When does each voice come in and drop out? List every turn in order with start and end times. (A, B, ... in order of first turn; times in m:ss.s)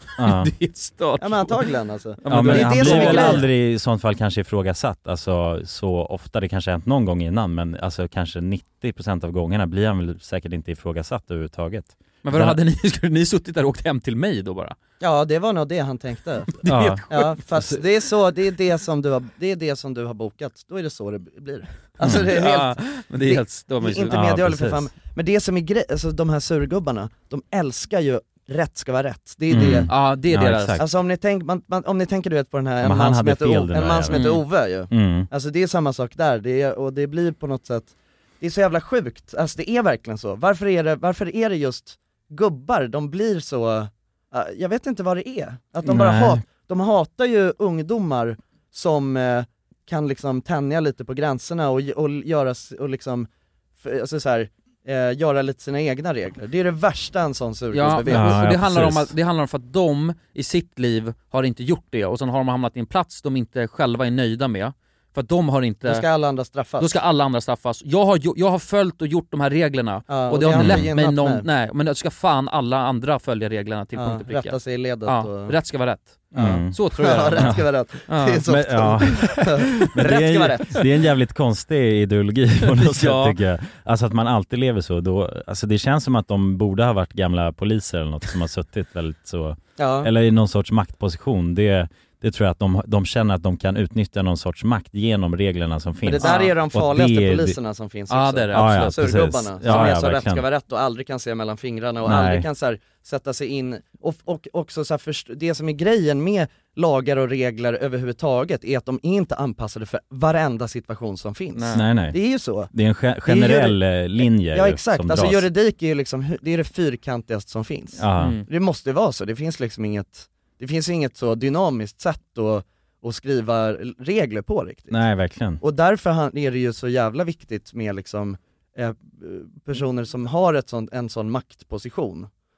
0:00.1-0:01.6 A
0:00.2-0:00.5 B
0:01.2-0:03.4 C
0:02.2-0:03.5 A
0:02.3-0:12.6 B
0:12.2-0:14.8 A
0:15.0-0:16.5 C
0:16.5-0:17.3 A
0:16.6-0:17.8 B
0:17.1-0:29.9 C
0:22.0-0:24.1 A
0:22.0-0:22.3 B
0:24.0-0:24.9 B
0:29.5-0:30.8 B
0:29.9-0:30.8 A
0:30.8-0:53.3 C
0:32.8-0:34.3 B
0:34.1-0:34.4 A
0:34.9-0:35.3 B
0:45.8-0:46.4 B
0:53.8-0:58.4 C
0:57.7-1:06.0 A
0:58.1-0:59.1 B
1:05.8-1:07.0 C
1:06.8-1:18.4 A
1:10.1-1:11.4 C
1:10.5-1:10.9 B
1:14.0-1:15.5 C
1:16.3-1:16.8 B
1:16.4-1:20.8 C
1:17.4-1:17.7 B
1:18.5-1:37.6 B
1:22.6-1:23.4 A
1:29.8-1:30.1 C
1:36.0-1:52.7 C
1:36.2-1:36.5 A
1:38.1-1:39.0 A
1:38.5-1:40.4 B
1:39.6-1:39.9 A
1:42.0-1:42.5 B
1:51.5-1:51.8 A
1:51.7-1:52.2 B
1:52.7-1:55.4 B
1:53.2-2:05.0 C
1:58.0-1:58.4 B
1:58.2-1:58.4 A
2:04.9-2:05.6 B
2:05.6-2:12.3 C